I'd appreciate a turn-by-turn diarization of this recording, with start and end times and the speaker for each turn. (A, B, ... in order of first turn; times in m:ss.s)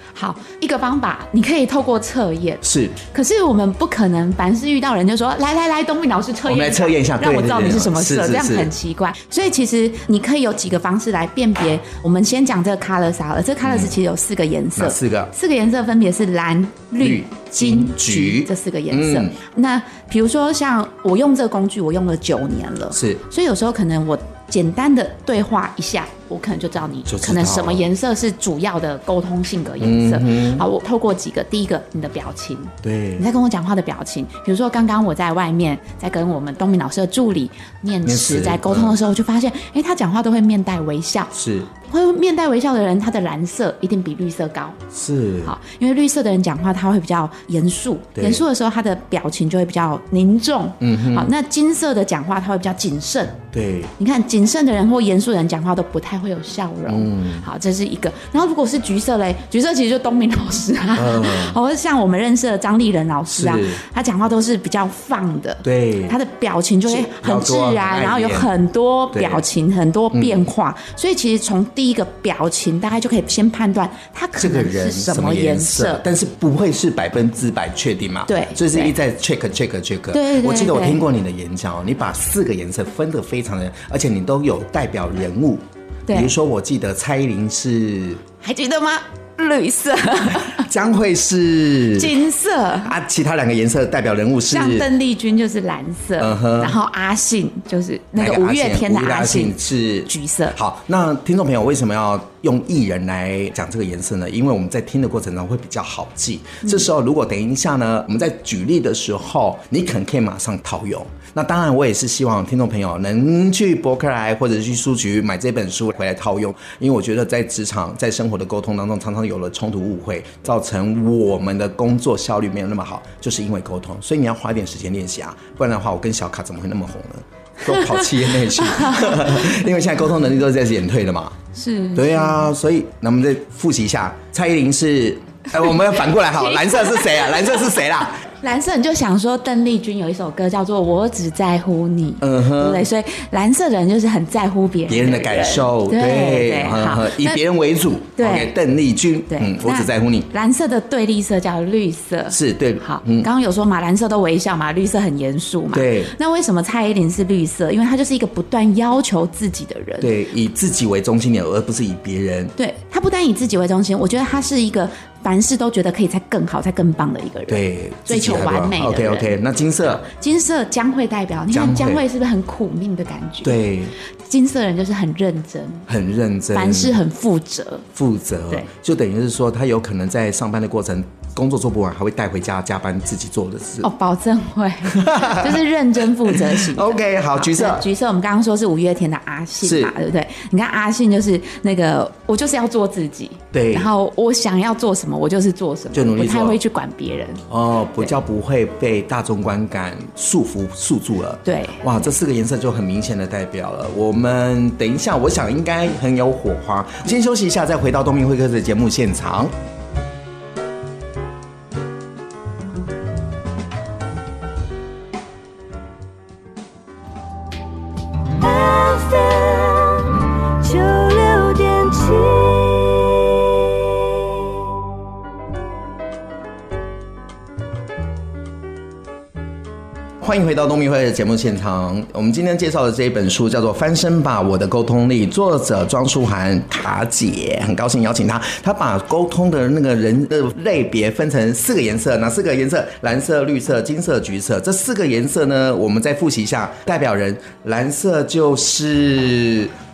0:00.1-0:44.8 A
0:02.6-0:03.0 B
0:06.4-0:08.7 B
0:13.6-0:13.9 B
0:14.8-0:15.3 B
0:17.0-0:19.4 B
0:22.9-0:23.2 B
0:27.1-0:27.8 B
0:29.8-0:30.6 B
0:32.8-0:33.2 B
0:38.0-0:39.0 B
0:41.3-0:41.7 B
0:44.9-0:45.5 B
0:45.4-0:53.4 A
0:48.2-0:48.4 B
0:50.8-0:51.3 B
0:53.5-0:53.9 B
0:54.0-1:16.0 A
0:56.9-0:57.4 B
1:00.9-1:01.6 B
1:03.3-1:03.8 B
1:05.6-1:06.2 B
1:06.8-1:08.5 B
1:09.1-1:09.4 B
1:10.1-1:10.4 B
1:14.4-1:28.2 B
1:18.3-1:18.9 A
1:20.1-1:21.0 A
1:26.1-1:26.3 A
1:28.4-1:30.6 A
1:30.4-1:32.1 B
1:31.9-1:32.9 A
1:32.8-1:34.9 B
1:34.5-1:40.6 A
1:36.2-1:36.8 B
1:38.2-2:11.4 B
2:07.7-2:08.0 A
2:08.6-2:09.6 A
2:11.5-2:12.4 A
2:11.9-2:18.2 B
2:16.3-2:17.6 A
2:18.3-2:27.4 A
2:22.2-2:22.8 B
2:24.9-2:30.3 B
2:28.2-2:28.5 A
2:29.3-2:40.1 A
2:32.3-2:33.3 B
2:35.7-2:36.1 B
2:40.0-2:42.5 B
2:42.6-2:53.6 A
2:47.5-2:50.0 B
2:51.5-2:52.0 B
2:53.4-2:53.9 B
2:54.2-2:55.9 A
2:55.9-2:57.0 B
2:56.5-2:57.8 A
2:57.9-3:03.9 B
3:03.8-3:17.4 A
3:04.9-3:05.6 B
3:06.3-3:07.8 B
3:09.6-3:09.9 B
3:13.5-3:13.9 B
3:15.9-3:16.6 B
3:17.5-3:29.5 B
3:21.4-3:21.9 A
3:38.4-3:44.0 C
3:50.2-4:09.7 B